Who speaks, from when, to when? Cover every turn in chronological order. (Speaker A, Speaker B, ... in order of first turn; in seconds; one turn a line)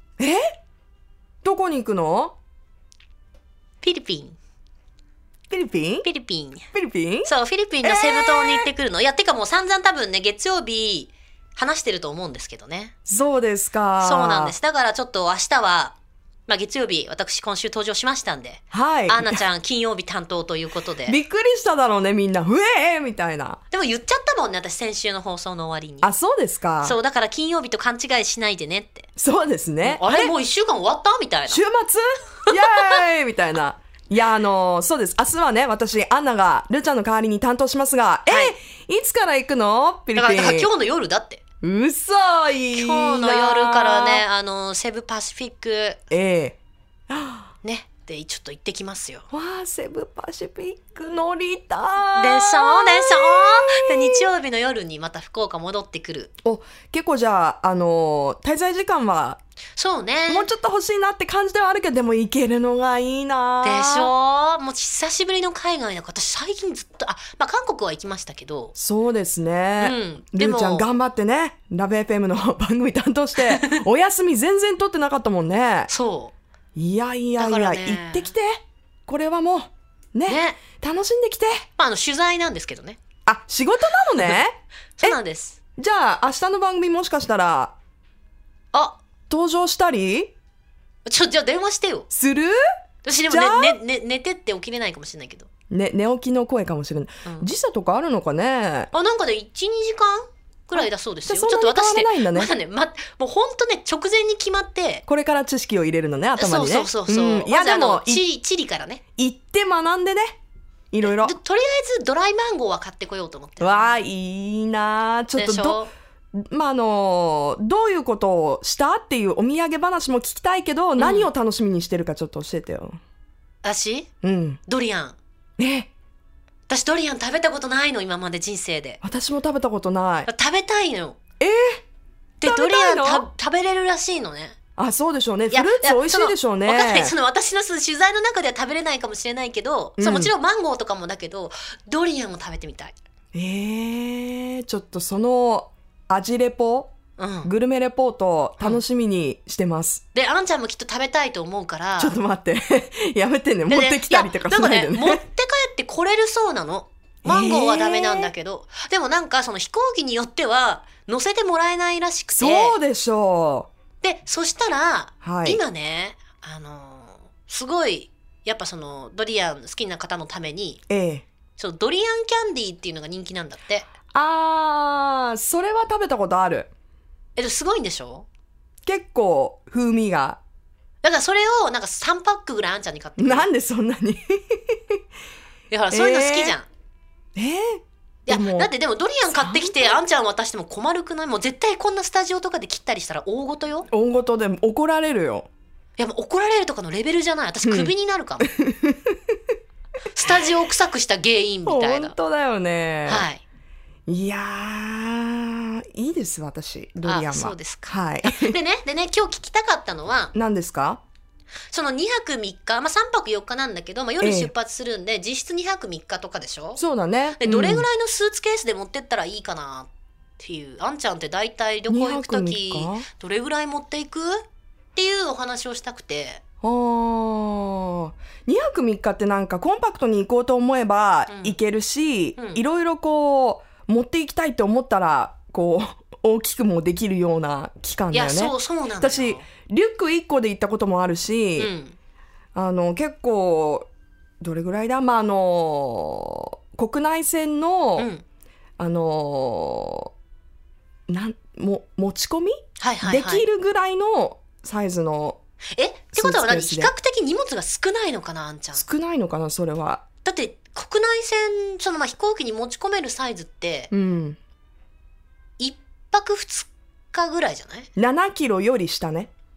Speaker A: 1.4-2.4
Speaker B: 3.8-4.4
Speaker A: 5.5-6.1
Speaker B: 6.0-6.7
Speaker A: 6.7-7.3
Speaker B: 7.2-12.9
Speaker A: 7.8-8.7
Speaker A: 13.1-14.6
Speaker B: 14.0-16.0
Speaker B: 16.5-21.2
Speaker A: 18.7-19.4
Speaker A: 21.1-23.6
Speaker B: 23.7-26.1
Speaker A: 26.0-27.0
Speaker B: 26.8-29.1
Speaker A: 29.2-30.3
Speaker B: 29.8-31.6
Speaker A: 31.5-40.7
Speaker B: 38.3-38.5
Speaker B: 40.1-41.4
Speaker A: 41.6-44.2
Speaker B: 42.7-46.0
Speaker A: 46.1-46.6
Speaker A: 47.1-47.5
Speaker B: 47.6-49.2
Speaker A: 49.3-54.3
Speaker B: 52.1-56.3
Speaker A: 56.4-59.4
Speaker B: 59.8-60.5
Speaker A: 60.3-64.1
Speaker B: 63.6-68.8
Speaker A: 68.8-75.9
Speaker B: 69.8-70.9
Speaker B: 73.4-73.8
Speaker B: 75.9-76.3
Speaker A: 76.8-81.7
Speaker B: 77.4-78.3
Speaker B: 80.3-80.6
Speaker B: 81.8-83.0
Speaker A: 83.3-85.2
Speaker B: 85.0-85.6
Speaker A: 85.8-87.7
Speaker B: 88.7-89.0
Speaker A: 89.3-90.3
Speaker B: 91.0-92.1
Speaker A: 92.1-92.6
Speaker B: 93.0-95.5
Speaker A: 93.3-93.8
Speaker A: 95.7-98.9
Speaker B: 98.9-105.0
Speaker A: 100.7-102.5
Speaker A: 105.1-108.2
Speaker B: 106.4-109.0
Speaker A: 109.2-110.4
Speaker A: 110.9-111.4
Speaker B: 111.0-113.9
Speaker A: 113.6-123.0
Speaker B: 115.4-115.9
Speaker B: 121.0-121.3
Speaker B: 123.6-124.1
Speaker A: 124.2-124.6
Speaker B: 124.7-125.2
Speaker A: 125.6-125.9
Speaker B: 126.7-129.0
Speaker A: 129.0-130.3
Speaker B: 130.3-131.2
Speaker A: 131.4-131.8
Speaker B: 132.4-134.6
Speaker A: 132.4-133.3
Speaker A: 134.8-137.1
Speaker B: 135.5-142.9
Speaker A: 140.0-140.3
Speaker A: 143.3-146.9
Speaker B: 147.2-147.5
Speaker A: 147.4-150.0
Speaker B: 150.1-152.2
Speaker A: 152.0-155.2
Speaker B: 153.7-162.8
Speaker A: 157.2-158.3
Speaker A: 162.4-163.7
Speaker B: 164.0-170.8
Speaker A: 165.2-165.6
Speaker A: 170.9-171.2
Speaker B: 171.6-173.9
Speaker A: 174.1-176.7
Speaker B: 177.4-178.3
Speaker A: 178.8-180.4
Speaker B: 181.0-183.5
Speaker A: 183.2-185.0
Speaker B: 185.7-186.7
Speaker A: 185.9-186.6
Speaker A: 187.4-188.7
Speaker B: 188.3-193.9
Speaker A: 189.3-190.0
Speaker A: 193.9-195.5
Speaker B: 196.0-198.5
Speaker A: 197.6-197.9
Speaker A: 198.5-199.4
Speaker B: 200.2-202.2
Speaker A: 201.7-203.3
Speaker B: 203.1-203.4
Speaker A: 204.1-208.6
Speaker B: 207.0-210.3
Speaker A: 210.3-211.0
Speaker B: 211.7-216.8
Speaker A: 214.2-214.5
Speaker A: 216.8-217.9
Speaker B: 217.4-224.4
Speaker A: 221.9-223.1
Speaker B: 224.9-226.4
Speaker A: 226.6-241.7
Speaker B: 231.3-231.6
Speaker B: 232.4-232.6
Speaker B: 238.1-239.5
Speaker B: 241.6-242.0
Speaker A: 242.6-243.9
Speaker A: 244.4-248.1
Speaker B: 248.0-248.2
Speaker A: 248.8-250.1
Speaker A: 251.1-255.4
Speaker B: 252.8-253.5
Speaker B: 255.8-258.8
Speaker A: 256.1-256.9
Speaker A: 258.7-260.0
Speaker B: 260.2-263.9
Speaker A: 263.9-264.4
Speaker B: 265.6-267.9
Speaker A: 268.0-269.3